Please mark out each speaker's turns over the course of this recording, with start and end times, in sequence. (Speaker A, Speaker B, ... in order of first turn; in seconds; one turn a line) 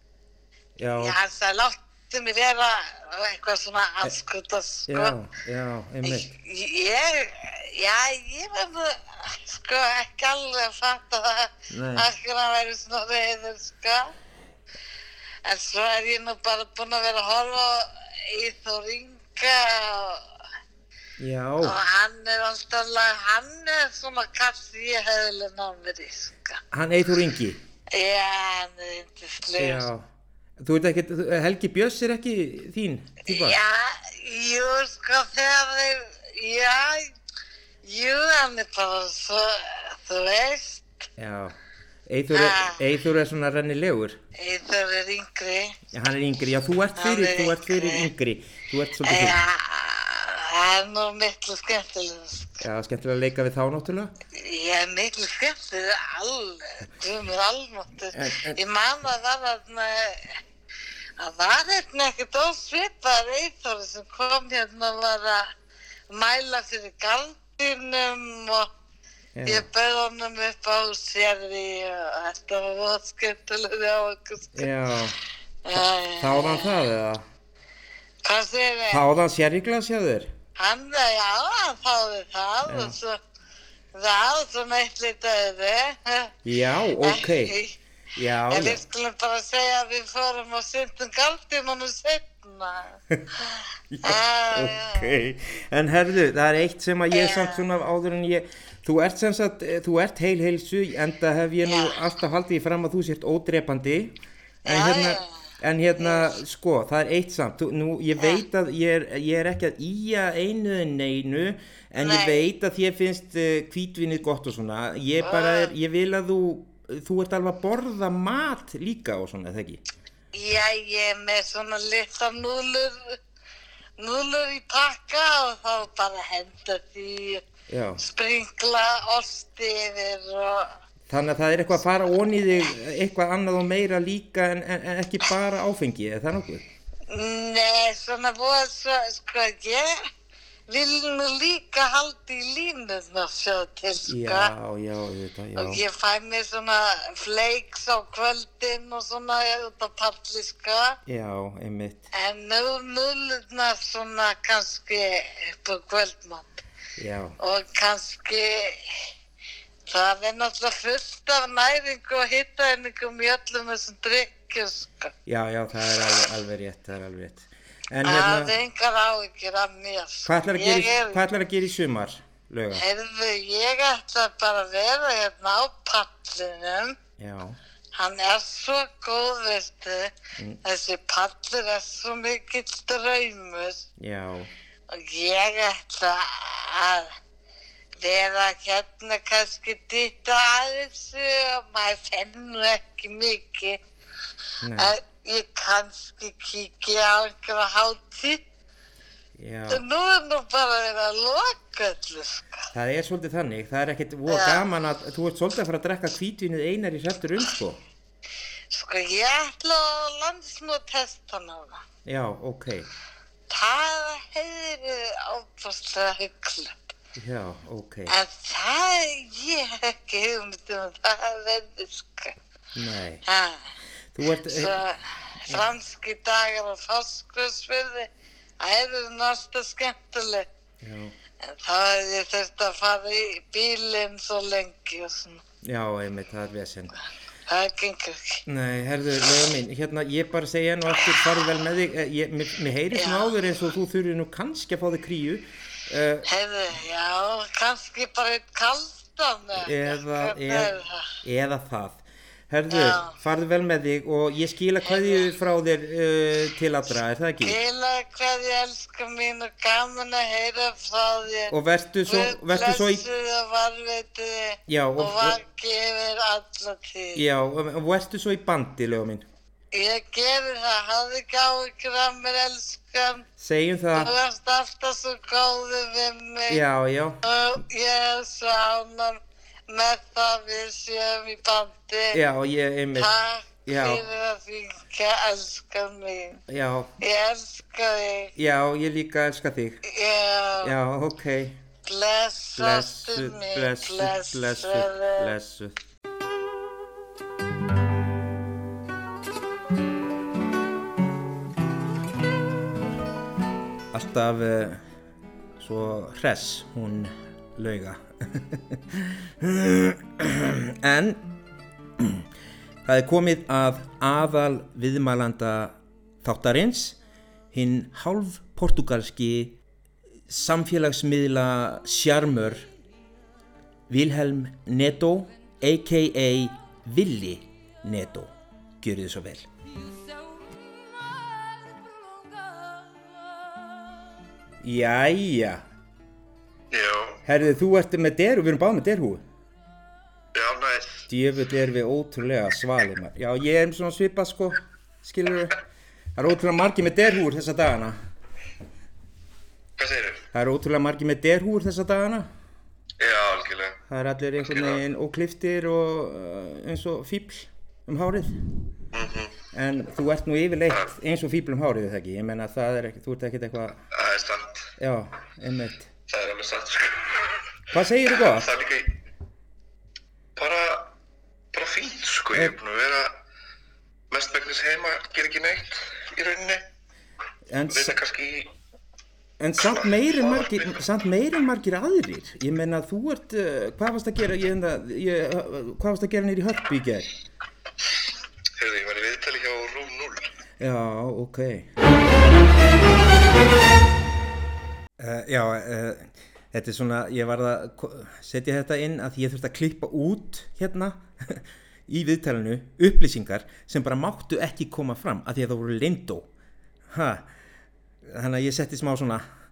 Speaker A: 0.8-1.2
Speaker B: 1.0-5.2
Speaker A: 4.9-6.3
Speaker B: 6.0-14.1
Speaker A: 11.7-12.1
Speaker B: 15.4-20.3
Speaker A: 21.2-21.8
Speaker B: 21.6-26.6
Speaker A: 26.7-27.6
Speaker B: 27.9-29.9
Speaker A: 29.5-30.1
Speaker A: 30.6-33.6
Speaker B: 33.3-37.1
Speaker B: 37.8-41.0
Speaker A: 41.2-44.2
Speaker B: 42.3-42.9
Speaker B: 44.4-45.8
Speaker A: 45.9-49.4
Speaker B: 47.0-48.1
Speaker B: 49.0-52.6
Speaker A: 52.6-54.1
Speaker B: 54.3-60.4
Speaker A: 58.1-58.6
Speaker B: 61.2-65.5
Speaker B: 66.1-68.7
Speaker A: 69.3-69.7
Speaker B: 69.5-74.7
Speaker A: 74.5-75.2
Speaker B: 75.7-76.9
Speaker A: 75.7-77.2
Speaker B: 78.2-79.1
Speaker A: 78.9-80.3
Speaker B: 80.6-83.2
Speaker A: 82.7-83.0
Speaker B: 83.9-86.4
Speaker A: 86.5-87.5
Speaker B: 87.0-87.8
Speaker A: 88.2-88.8
Speaker B: 88.5-95.2
Speaker A: 93.9-119.8
Speaker B: 97.1-97.7
Speaker B: 101.6-102.0
Speaker B: 104.7-105.3
Speaker B: 106.0-106.3
Speaker B: 108.2-108.4
Speaker B: 112.0-112.4
Speaker B: 115.2-115.7
Speaker B: 120.3-123.2
Speaker B: 124.0-127.4
Speaker A: 127.7-128.0
Speaker B: 128.0-130.7
Speaker A: 131.1-136.7
Speaker B: 137.1-140.1
Speaker B: 140.7-144.5
Speaker A: 144.1-145.8
Speaker B: 145.6-151.0
Speaker A: 151.1-152.1
Speaker B: 152.1-156.6
Speaker A: 157.0-157.4
Speaker B: 157.4-159.1
Speaker B: 159.9-165.1
Speaker A: 165.3-168.6
Speaker B: 168.1-171.2
Speaker A: 170.3-172.8
Speaker B: 172.8-177.0
Speaker A: 177.2-177.6
Speaker B: 177.9-183.8
Speaker A: 184.0-184.5
Speaker B: 184.9-187.2
Speaker B: 188.0-193.8
Speaker A: 194.6-194.9
Speaker B: 194.8-198.4
Speaker A: 199.4-199.8
Speaker B: 199.7-202.5
Speaker A: 202.7-207.8
Speaker B: 204.3-204.6
Speaker B: 208.7-211.8
Speaker A: 212.1-212.9
Speaker B: 213.5-216.8
Speaker A: 217.2-218.1
Speaker B: 218.1-222.4
Speaker A: 222.8-223.2
Speaker B: 223.3-223.7
Speaker A: 224.2-224.8
Speaker B: 224.4-230.5
Speaker A: 230.8-231.1
Speaker B: 231.4-235.4
Speaker A: 235.6-236.9
Speaker B: 237.5-238.4
Speaker A: 238.5-246.3
Speaker B: 240.9-241.4
Speaker B: 242.9-243.4
Speaker B: 246.3-251.1
Speaker A: 249.6-250.7
Speaker A: 251.2-257.6
Speaker B: 252.7-253.1
Speaker B: 254.8-255.3
Speaker B: 257.4-261.6
Speaker A: 261.5-263.1
Speaker B: 262.1-267.2
Speaker A: 264.7-265.4
Speaker A: 267.1-269.3
Speaker B: 269.7-273.3
Speaker A: 273.4-274.1
Speaker B: 273.9-276.6
Speaker A: 276.5-277.2
Speaker B: 277.2-282.2
Speaker A: 282.1-283.1
Speaker B: 282.9-286.4
Speaker A: 283.7-284.0
Speaker A: 286.5-286.9
Speaker B: 287.0-288.3
Speaker A: 288.4-289.8
Speaker B: 289.8-290.7
Speaker A: 290.6-291.6
Speaker B: 291.9-295.3
Speaker A: 292.6-295.8
Speaker A: 303.9-304.8
Speaker A: 305.6-311.3
Speaker A: 312.0-312.2
Speaker A: 312.9-317.0
Speaker A: 317.5-319.6
Speaker A: 320.3-322.7
Speaker A: 323.9-329.5
Speaker A: 334.6-335.6
Speaker C: 336.7-337.2
Speaker A: 337.3-339.2
Speaker C: 340.3-341.1
Speaker A: 341.1-345.6
Speaker A: 346.2-348.0
Speaker C: 349.8-350.2
Speaker A: 350.3-352.3
Speaker C: 353.0-353.8
Speaker A: 353.9-358.6
Speaker C: 354.4-354.8
Speaker C: 358.9-359.4
Speaker A: 359.5-363.9
Speaker C: 363.9-364.7
Speaker A: 364.8-365.9
Speaker C: 366.1-369.0
Speaker A: 367.7-368.5
Speaker C: 370.4-370.9
Speaker C: 371.5-373.2
Speaker C: 374.1-376.7
Speaker A: 377.5-378.0
Speaker C: 377.7-378.5
Speaker A: 379.4-387.1
Speaker C: 379.6-380.8
Speaker C: 388.6-390.3
Speaker A: 390.6-391.7
Speaker A: 395.0-406.3
Speaker A: 406.9-407.3
Speaker A: 408.1-409.3